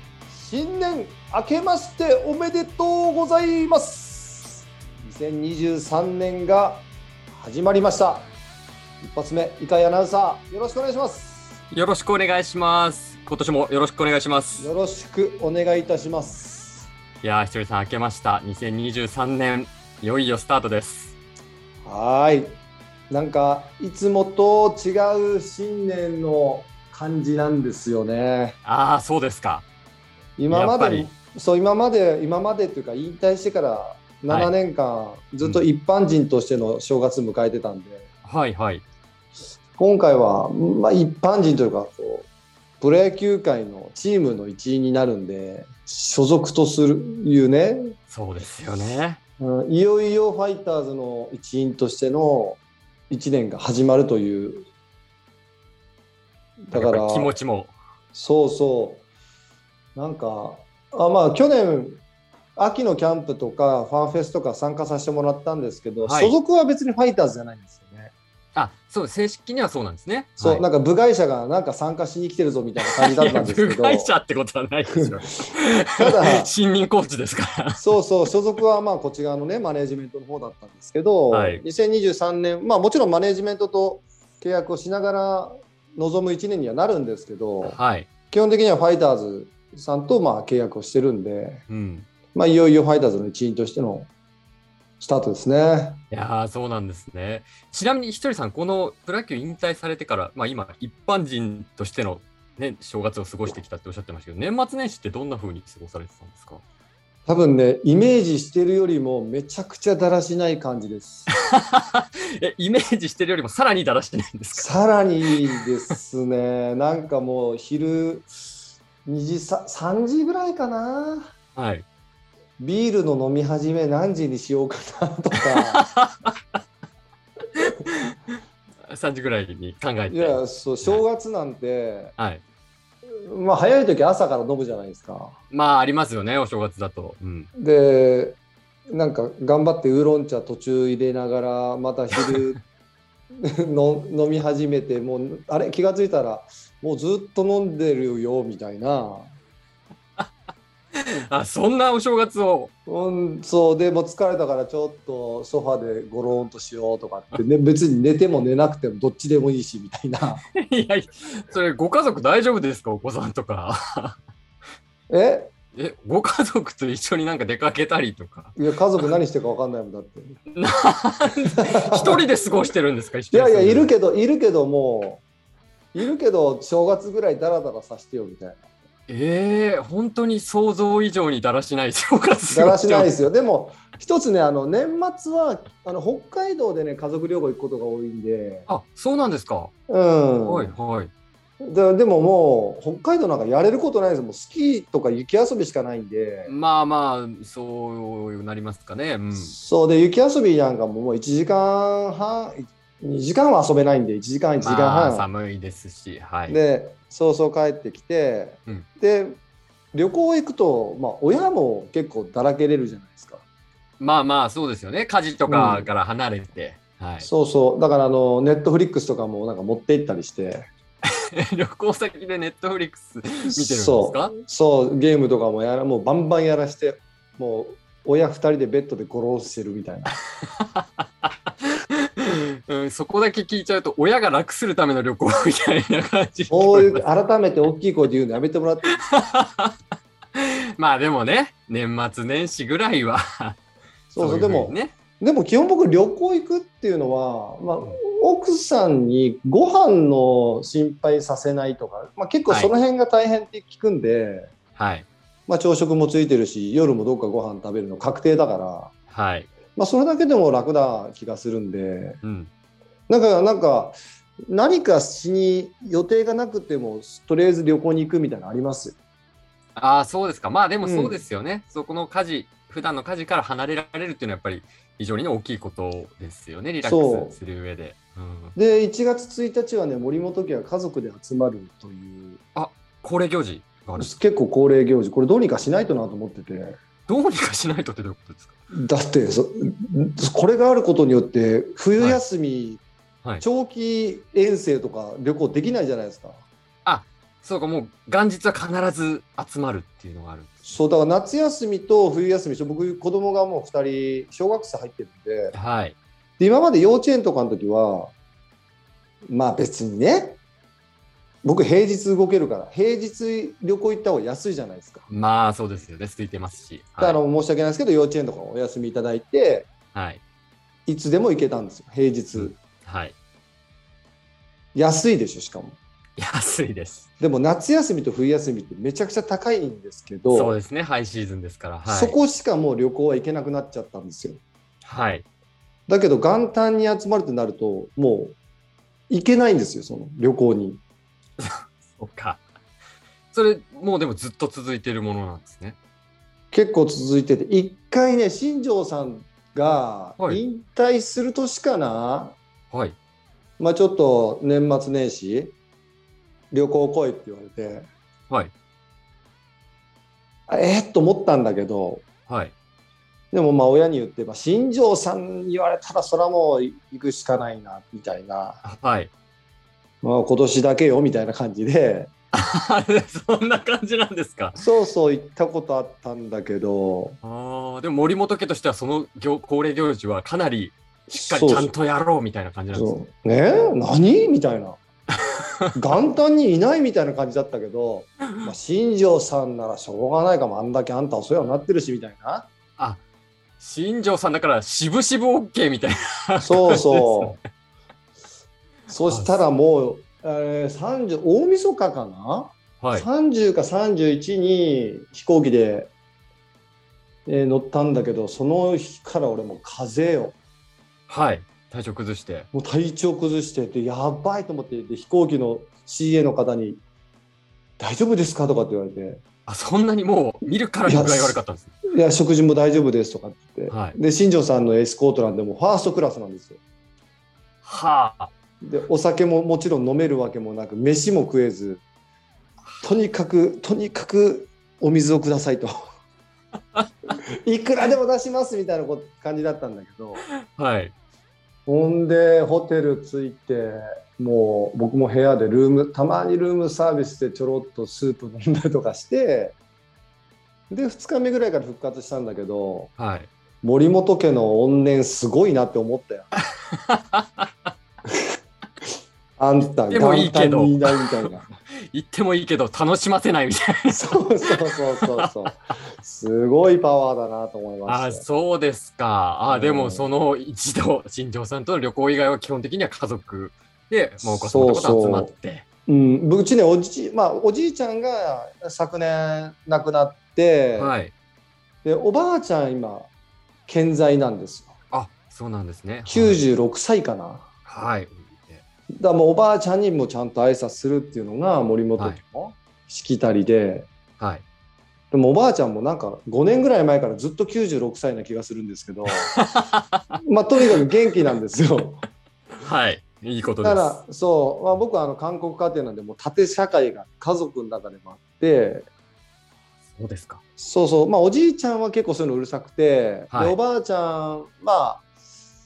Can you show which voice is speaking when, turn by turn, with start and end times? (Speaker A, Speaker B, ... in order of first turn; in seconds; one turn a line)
Speaker A: 0.3-8.3
Speaker A: 9.0-11.6
Speaker B: 11.7-14.7
Speaker A: 14.6-16.9
Speaker B: 17.2-21.1
Speaker A: 21.8-22.5
Speaker A: 23.1-28.6
Speaker B: 28.6-29.6
Speaker A: 30.4-38.1
Speaker B: 30.5-31.1
Speaker B: 38.2-38.8
Speaker A: 39.8-42.3
Speaker A: 42.8-47.8
Speaker B: 48.1-49.2
Speaker A: 49.4-54.6
Speaker A: 56.7-57.3
Speaker B: 56.7-57.7
Speaker A: 58.1-59.0
Speaker A: 60.0-62.0
Speaker A: 62.5-68.1
Speaker B: 66.0-66.3
Speaker B: 68.5-70.6
Speaker A: 70.4-74.1
Speaker B: 72.8-77.9
Speaker A: 74.9-76.5
Speaker A: 77.8-87.8
Speaker B: 81.3-81.6
Speaker B: 87.6-88.1
Speaker A: 88.3-91.6
Speaker B: 91.7-92.1
Speaker A: 92.3-94.1
Speaker A: 95.0-96.0
Speaker B: 96.1-106.6
Speaker A: 107.3-111.3
Speaker B: 111.3-115.6
Speaker A: 114.5-118.3
Speaker A: 119.0-121.3
Speaker B: 121.5-121.8
Speaker A: 122.6-125.8
Speaker B: 125.5-126.3
Speaker B: 127.6-131.0
Speaker A: 130.1-132.1
Speaker B: 132.2-132.4
Speaker A: 133.1-135.3
Speaker B: 135.5-137.5
Speaker A: 137.6-138.4
Speaker A: 138.9-142.6
Speaker A: 143.4-149.3
Speaker B: 151.3-152.7
Speaker A: 152.9-160.4
Speaker B: 160.5-164.2
Speaker A: 165.1-165.5
Speaker B: 165.7-169.0
Speaker A: 168.6-170.4
Speaker B: 170.5-173.9
Speaker A: 171.6-172.2
Speaker A: 173.3-175.2
Speaker A: 175.9-178.6
Speaker B: 179.1-183.2
Speaker A: 182.5-188.7
Speaker B: 188.7-189.7
Speaker A: 189.9-190.7
Speaker B: 190.4-191.1
Speaker A: 191.6-196.5
Speaker B: 196.4-199.5
Speaker A: 199.3-205.3
Speaker B: 204.6-206.6
Speaker A: 206.5-209.3
Speaker A: 209.9-213.4
Speaker B: 214.0-217.3
Speaker A: 215.5-215.9
Speaker A: 217.2-220.7
Speaker B: 221.1-224.3
Speaker A: 223.5-230.2
Speaker B: 230.5-237.0
Speaker A: 236.5-239.0
Speaker B: 238.9-239.7
Speaker B: 240.3-243.6
Speaker A: 244.1-254.5
Speaker B: 244.2-244.9
Speaker B: 254.8-255.1
Speaker A: 255.5-258.9
Speaker B: 259.1-259.5
Speaker A: 259.7-262.2
Speaker B: 262.2-262.5
Speaker A: 263.1-263.9
Speaker A: 264.5-269.0
Speaker B: 269.8-278.5
Speaker A: 270.8-271.1
Speaker A: 276.8-277.3
Speaker A: 278.5-282.4
Speaker B: 282.5-284.1
Speaker A: 284.0-286.7
Speaker B: 287.1-288.5
Speaker A: 288.7-292.8
Speaker A: 293.4-296.4
Speaker B: 296.8-300.5
Speaker A: 300.6-305.5
Speaker B: 305.5-305.9
Speaker A: 306.4-308.1
Speaker A: 309.3-310.4
Speaker A: 311.4-315.1
Speaker B: 315.1-317.2
Speaker A: 317.0-319.7
Speaker B: 319.9-320.2
Speaker A: 320.9-322.5
Speaker B: 322.3-323.1
Speaker A: 324.7-325.8
Speaker B: 326.2-327.1
Speaker A: 327.2-330.6
Speaker B: 330.3-332.2
Speaker A: 331.9-334.4
Speaker B: 334.8-335.2
Speaker A: 335.9-338.4
Speaker A: 339.1-340.8
Speaker B: 341.4-342.4
Speaker B: 343.3-345.8
Speaker A: 346.5-352.4
Speaker B: 352.7-352.9
Speaker A: 353.6-355.5
Speaker A: 356.5-357.9
Speaker A: 360.5-362.0
Speaker B: 362.3-362.5
Speaker A: 363.3-368.6
Speaker B: 368.6-369.1
Speaker A: 370.0-372.1
Speaker B: 372.3-374.6
Speaker A: 374.5-377.2
Speaker B: 377.2-383.0
Speaker A: 381.1-381.7
Speaker A: 382.7-384.8
Speaker B: 385.3-385.7
Speaker A: 385.7-392.5
Speaker B: 392.8-393.0
Speaker B: 393.6-397.4
Speaker A: 396.4-397.4
Speaker A: 398.9-405.9
Speaker B: 399.1-399.4
Speaker B: 402.8-403.1
Speaker A: 407.2-410.4
Speaker B: 411.1-412.5
Speaker A: 412.5-416.8
Speaker A: 417.8-419.2
Speaker B: 419.5-421.7
Speaker A: 420.9-421.4
Speaker A: 421.9-426.6
Speaker B: 423.7-424.0
Speaker B: 427.6-428.3
Speaker A: 428.6-431.8
Speaker A: 432.8-435.7
Speaker A: 437.4-440.2
Speaker B: 440.5-440.9
Speaker A: 441.6-449.5
Speaker A: 450.7-452.9
Speaker B: 453.0-453.3
Speaker A: 453.6-456.3
Speaker B: 456.7-457.5
Speaker A: 459.4-461.5
Speaker B: 459.9-461.3
Speaker B: 461.9-465.5
Speaker A: 463.9-468.2
Speaker B: 467.9-475.6
Speaker A: 469.5-470.1
Speaker A: 474.2-475.3
Speaker A: 475.9-480.9
Speaker B: 480.7-481.1
Speaker A: 481.8-483.1
Speaker A: 483.7-484.7
Speaker B: 484.9-486.4
Speaker A: 486.1-487.5
Speaker B: 487.7-488.6
Speaker A: 489.0-493.9
Speaker A: 495.1-499.3
Speaker B: 499.1-500.1
Speaker A: 500.2-502.0
Speaker B: 502.6-504.0
Speaker A: 503.6-508.9
Speaker B: 510.0-510.4
Speaker A: 510.6-515.0
Speaker B: 513.3-513.6